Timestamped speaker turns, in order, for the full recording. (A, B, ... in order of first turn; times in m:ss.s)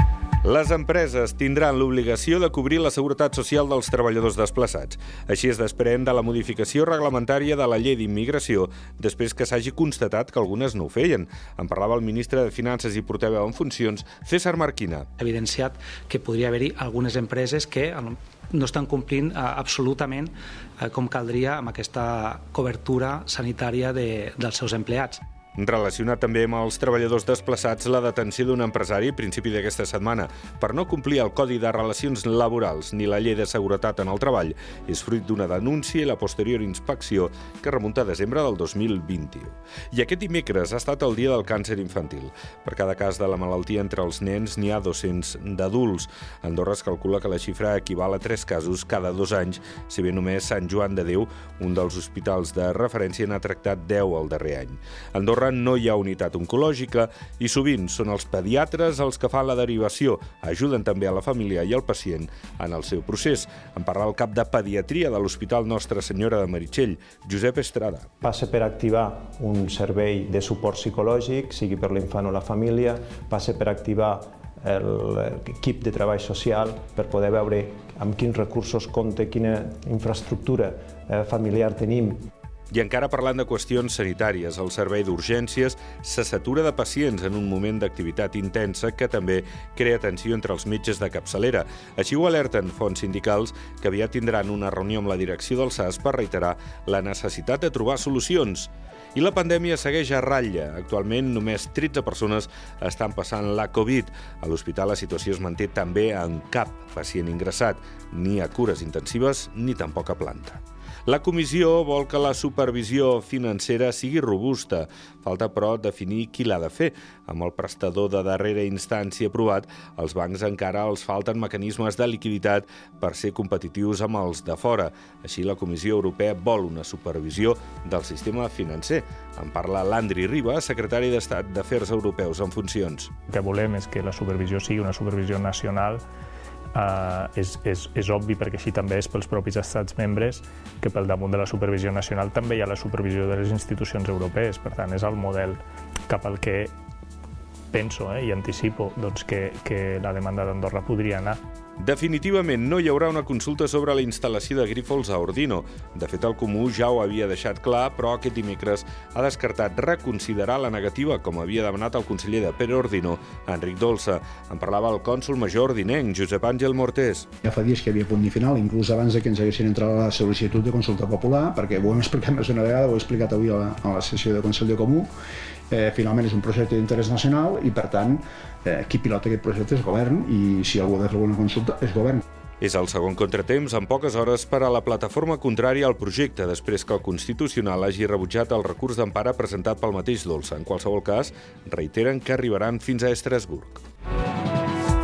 0:00.4-0:15.1 A
0:15.2-0:25.2 B
0:25.6-1:08.1 A
1:08.2-1:22.3 C
1:22.7-2:13.1 A
2:13.3-2:16.0 D
2:16.8-2:26.7 D
2:27.7-2:31.4 D
2:31.8-2:47.3 A
2:47.4-2:55.1 E
2:55.7-3:02.2 E
3:02.6-3:13.8 A